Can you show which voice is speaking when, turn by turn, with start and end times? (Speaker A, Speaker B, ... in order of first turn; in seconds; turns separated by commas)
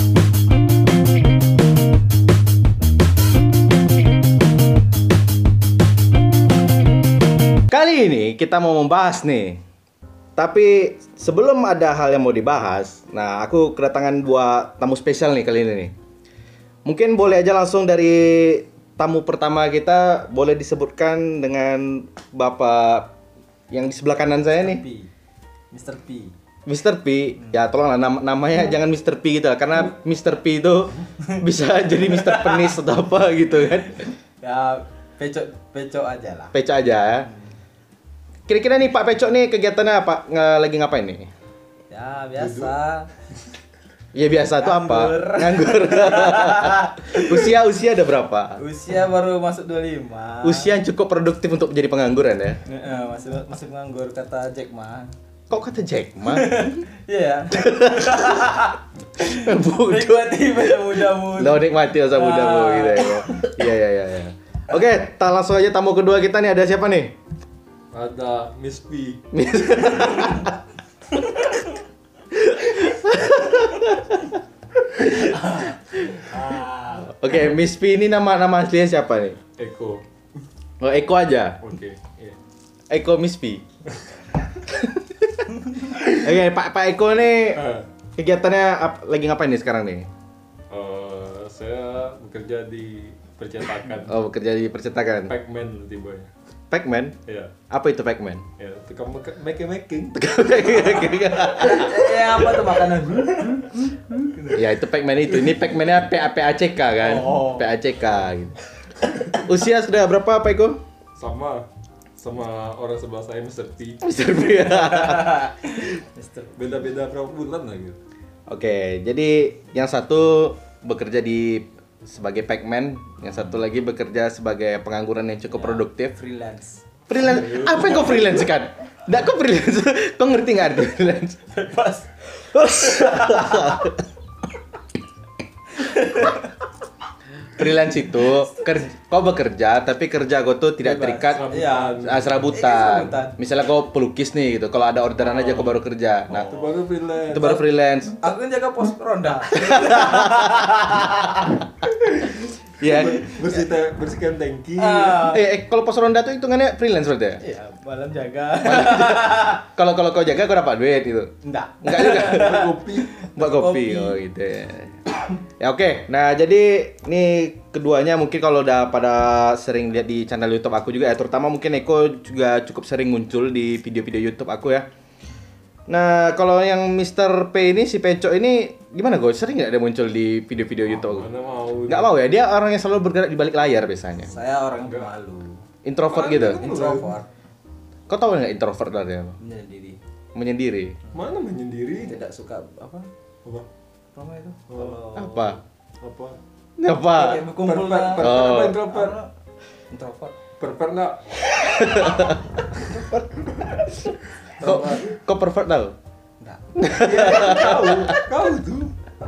Speaker A: 7.7-9.6, Speaker A: 10.4-15.9, Speaker A: 16.9-23.1, Speaker A: 23.7-24.8, Speaker B: 24.6-25.1, Speaker B: 25.7-26.4, Speaker A: 26.7-34.1, Speaker B: 32.0-32.8, Speaker B: 33.8-36.5, Speaker A: 36.5-37.3, Speaker B: 37.2-37.5, Speaker A: 38.5-41.3, Speaker B: 41.9-43.1, Speaker C: 42.4-42.7, Speaker A: 44.1-48.6, Speaker B: 44.5-47.6, Speaker B: 48.6-50.7, Speaker A: 50.4-52.6, Speaker B: 52.6-55.1, Speaker A: 55.5-56.8, Speaker B: 56.3-63.6, Speaker A: 57.5-58.7, Speaker A: 59.2-67.2, Speaker C: 67.9-69.2, Speaker A: 69.3-70.5, Speaker A: 72.3-74.4, Speaker A: 74.9-76.5, Speaker B: 75.2-77.2, Speaker A: 77.0-79.4, Speaker C: 79.6-80.0, Speaker A: 80.8-81.6, Speaker C: 81.6-82.4, Speaker A: 82.9-83.6, Speaker A: 84.7-87.6, Speaker C: 87.5-87.9, Speaker A: 88.2-90.1, Speaker C: 90.7-94.1, Speaker A: 94.0-95.3, Speaker C: 95.3-96.3, Speaker A: 96.7-97.2, Speaker C: 97.3-97.5, Speaker A: 97.7-98.5, Speaker C: 98.6-101.1, Speaker A: 100.2-102.3, Speaker B: 101.5-104.7, Speaker C: 102.5-103.3, Speaker A: 104.5-108.6, Speaker B: 107.0-107.7, Speaker A: 109.3-110.8, Speaker C: 111.2-111.7, Speaker C: 112.2-114.0, Speaker A: 114.0-115.4, Speaker B: 114.5-116.6, Speaker C: 116.6-118.0, Speaker A: 118.5-126.2, Speaker B: 123.3-123.6, Speaker B: 125.5-126.8, Speaker A: 127.1-131.5, Speaker C: 127.2-128.5, Speaker B: 131.5-133.9, Speaker A: 132.4-134.0, Speaker B: 135.7-136.5, Speaker A: 137.5-141.5, Speaker B: 138.2-138.8, Speaker B: 140.8-143.3, Speaker C: 141.3-142.4, Speaker A: 142.0-146.5, Speaker C: 145.2-145.8, Speaker B: 146.3-146.8, Speaker C: 146.4-147.6, Speaker A: 147.3-148.2, Speaker B: 148.2-151.6, Speaker A: 149.5-151.6, Speaker A: 152.4-153.3, Speaker C: 152.8-155.3, Speaker B: 153.2-153.7, Speaker B: 154.8-155.4, Speaker A: 155.2-157.4, Speaker B: 157.4-159.6, Speaker A: 158.6-162.6, Speaker B: 161.4-164.2, Speaker C: 162.1-163.2, Speaker A: 163.3-174.9, Speaker A: 175.9-181.3, Speaker C: 180.9-182.1, Speaker A: 181.9-184.3, Speaker B: 184.2-185.6, Speaker A: 185.8-186.6, Speaker C: 186.1-187.2, Speaker B: 186.2-187.3, Speaker A: 188.1-189.4, Speaker B: 189.4-190.0, Speaker A: 190.3-191.0, Speaker C: 191.1-192.2, Speaker B: 192.0-193.1, Speaker B: 194.1-195.6, Speaker C: 194.7-195.4, Speaker A: 195.1-195.6, Speaker C: 196.0-196.4, Speaker A: 196.8-197.4, Speaker B: 197.1-199.3, Speaker C: 197.6-199.2, Speaker A: 198.2-198.8, Speaker B: 199.9-200.4, Speaker C: 200.6-201.4, Speaker A: 201.5-202.4, Speaker B: 202.8-203.9, Speaker C: 204.4-205.1, Speaker A: 204.6-205.9, Speaker B: 206.4-207.6, Speaker A: 206.8-208.2, Speaker C: 207.0-208.9